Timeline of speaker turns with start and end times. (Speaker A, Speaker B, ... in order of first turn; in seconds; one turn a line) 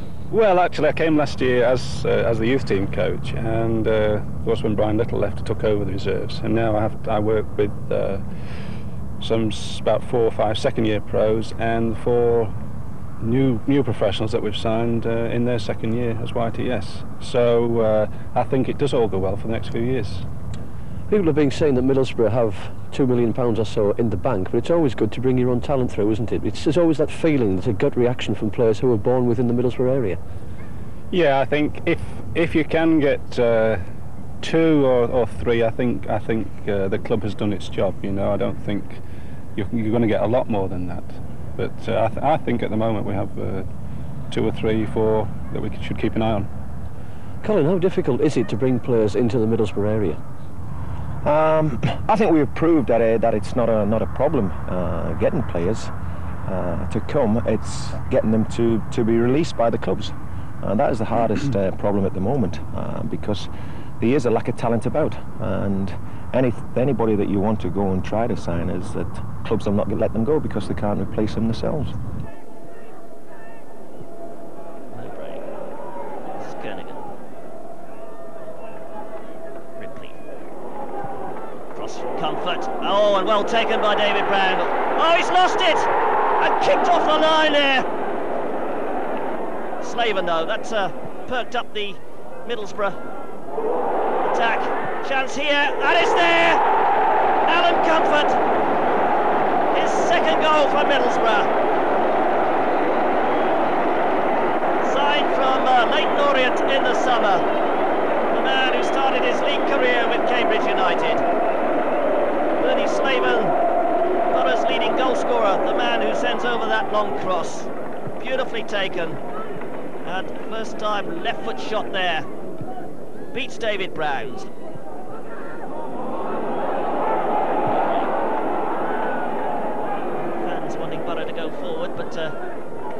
Speaker A: 0.3-12.5
Speaker A: 13.2-20.2
Speaker B: 21.1-30.2
Speaker A: 31.1-33.9
Speaker A: 34.4-39.0
Speaker A: 39.5-43.7
Speaker A: 44.2-46.5
Speaker B: 47.4-50.2
Speaker C: 51.2-55.9
Speaker C: 56.4-63.5
Speaker C: 64.0-71.9
Speaker D: 74.9-75.4
Speaker D: 76.3-77.1
Speaker D: 79.8-80.2
Speaker D: 81.7-87.9
Speaker D: 89.8-93.0
Speaker D: 94.2-96.6
Speaker D: 97.5-98.4
Speaker D: 99.7-101.5
Speaker D: 104.8-107.4
Speaker D: 108.3-111.2
Speaker D: 112.6-113.5
Speaker D: 114.3-119.2
Speaker D: 120.0-122.3
Speaker D: 123.3-124.5
Speaker D: 127.7-128.1
Speaker D: 130.1-132.3